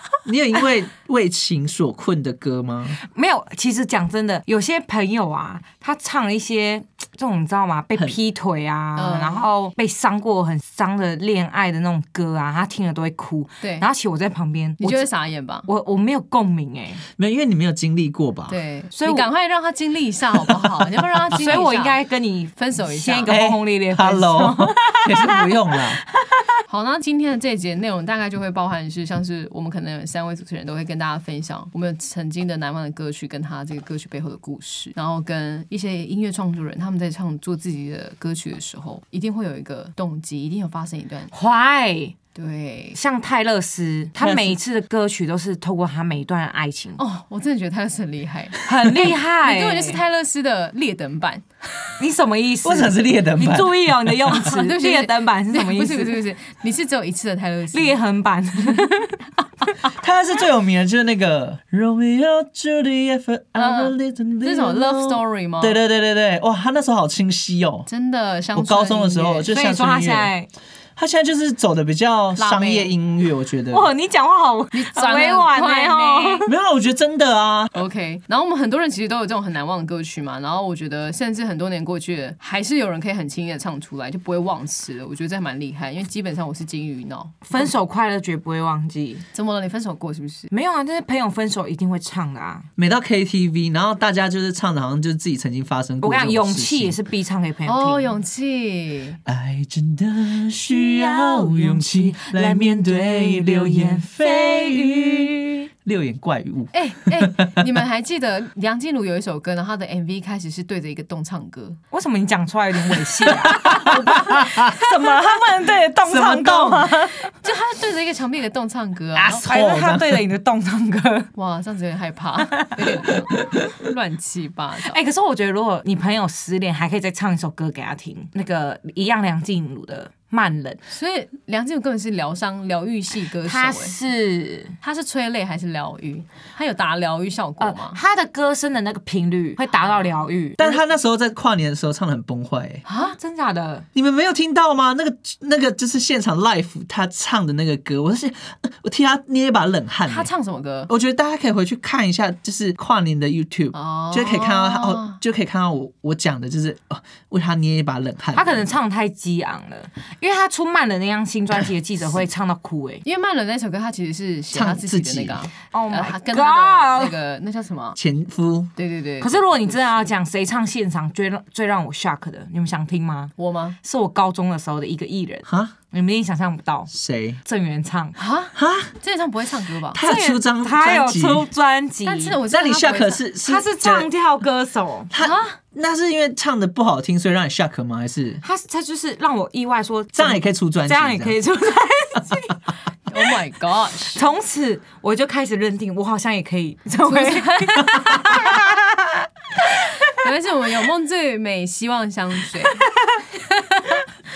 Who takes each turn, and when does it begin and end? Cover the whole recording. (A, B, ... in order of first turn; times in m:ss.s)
0:00.2-0:03.0 A
0:03.0-0:15.1 B
0:09.0-0:09.4 C
0:13.6-0:13.9 C
0:14.8-0:15.7 C
0:15.6-0:17.0 B
0:17.2-0:18.6 A
0:18.5-0:22.0 C
0:18.9-0:19.3 B
0:20.5-0:20.7 A
0:21.4-0:26.5 B
0:22.6-0:23.4 C
0:23.3-0:26.0 A
0:26.7-0:41.3 C
0:41.3-0:42.1 B
0:42.3-0:43.0 C
0:42.9-0:47.0 B
0:44.2-0:44.5 A
0:47.0-0:51.9 C
0:48.6-0:50.0 B
0:52.0-0:56.2 B
0:52.6-0:54.4 A
0:54.3-0:58.0 C
0:57.7-0:59.2 B
0:59.8-1:07.9 A
1:03.6-1:05.8 C
1:07.9-1:09.5 C
1:08.5-1:10.3 A
1:09.5-1:10.5 B
1:11.0-1:13.9 A
1:12.4-1:12.9 C
1:13.7-1:16.4 B
1:14.7-1:16.5 C
1:16.4-1:17.7 A
1:17.7-1:27.7 C
1:27.5-1:29.2 B
1:29.3-1:30.5 C
1:30.5-1:32.7 B
1:32.8-1:36.9 A
1:36.0-1:38.2 B
1:37.6-1:39.2 C
1:39.2-1:47.6 A
1:40.7-1:45.6 B
1:46.7-1:51.8 C
1:51.9-1:57.3 B
1:53.3-1:54.8 A
1:56.0-1:56.9 A
1:57.3-1:59.4 C
1:59.1-2:00.2 A
1:59.4-2:01.3 B
2:01.4-2:05.0 C
2:02.5-2:03.1 B
2:04.9-2:10.8 B
2:10.9-2:13.9 C
2:13.4-2:14.8 B
2:14.8-2:18.0 C
2:17.6-2:20.7 B
2:20.6-2:22.8 A
2:22.8-2:23.2 C
2:22.9-2:23.8 B
2:23.9-2:30.3 A
2:30.1-2:30.9 C
2:30.9-2:38.7 A
2:33.7-2:35.2 C
2:38.3-2:43.0 B
2:43.0-2:48.0 C
2:44.5-2:45.5 A
2:45.7-2:47.2 B
2:48.0-2:48.7 A
2:48.8-2:50.0 C
2:49.2-2:56.9 B
2:53.4-2:53.8 C
2:55.4-2:55.7 A
2:56.9-2:57.4 A
2:57.4-2:58.2 B
2:58.2-3:00.0 C
2:58.5-2:58.9 A
2:59.9-3:01.5 A
3:00.0-3:05.1 B
3:02.0-3:03.2 C
3:02.5-3:04.1 A
3:05.1-3:08.4 A
3:05.2-3:05.6 C
3:08.4-3:12.6 B
3:10.1-3:11.4 A
3:13.1-3:14.2 C
3:14.1-3:19.2 B
3:17.0-3:18.5 C
3:19.7-3:24.0 C
3:19.8-3:20.2 B